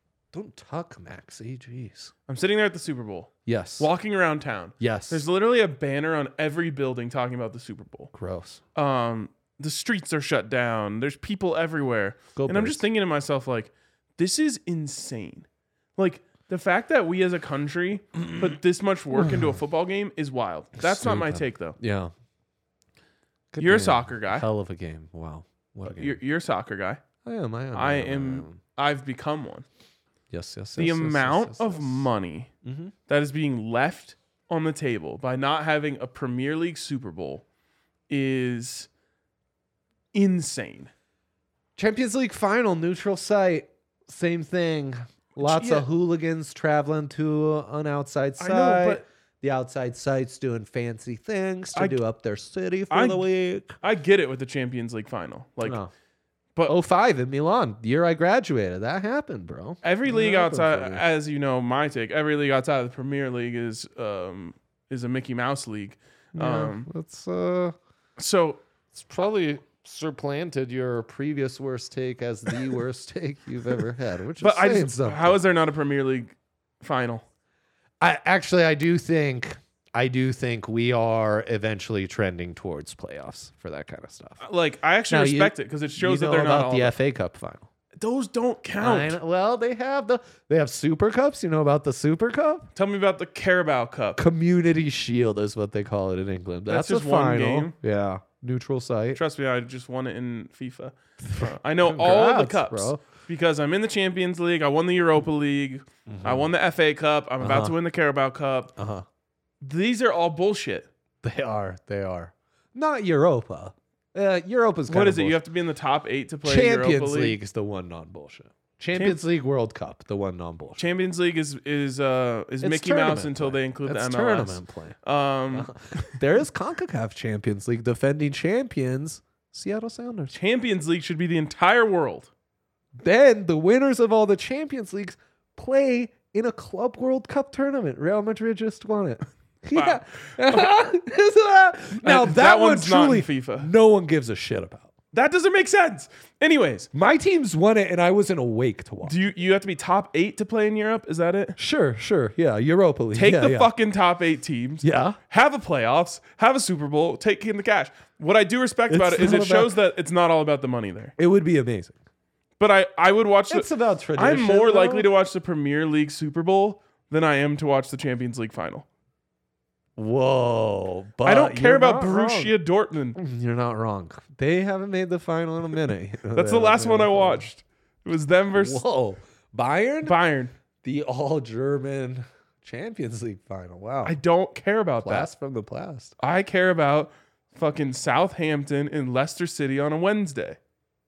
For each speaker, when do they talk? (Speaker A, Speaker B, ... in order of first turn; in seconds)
Speaker A: 0.3-2.1, 3.5-3.9, 4.8-5.2, 8.1-8.6, 12.4-12.8, 19.1-19.6, 20.8-22.1, 23.5-26.2, 27.2-28.6, 30.3-32.1, 32.6-32.9, 41.8-53.8, 55.6-55.9, 56.7-61.0, 66.3-67.8, 68.9-75.4, 78.0-84.4, 85.1-87.7, 88.8-92.7, 94.2-99.2, 101.2-103.0, 106.1-106.5, 107.4-107.8, 108.8-109.0, 111.2-115.4, 116.4-120.8, 122.6-125.0, 125.5-130.3, 133.0-144.9, 146.9-149.2, 151.6-153.7, 154.8-155.2, 158.9-159.8, 161.2-162.0, 163.5-165.1, 170.0-172.6, 173.2-177.5, 178.5-180.2, 180.8-184.2, 185.0-186.2
Speaker B: 2.3-8.1, 8.8-21.8, 23.6-24.5, 25.9-27.0, 27.7-29.7, 30.8-32.5, 33.1-37.5, 38.1-38.9, 40.1-40.9, 45.4-45.9, 48.4-49.0, 51.8-52.0, 52.9-53.3, 53.8-55.8, 59.8-66.9, 68.2-68.6, 74.4-77.2, 84.4-87.0, 88.0-89.2, 92.8-94.2, 96.7-97.8, 99.2-108.7, 109.6-110.9, 114.9-117.4, 118.9-119.2, 120.8-125.7, 130.3-132.3, 139.7-140.7, 142.0-143.7, 145.1-146.9, 149.0-151.6, 153.1-161.1, 162.6-168.9, 171.2-173.2, 176.3-178.8, 180.0-180.5, 184.0-185.3, 186.2-190.6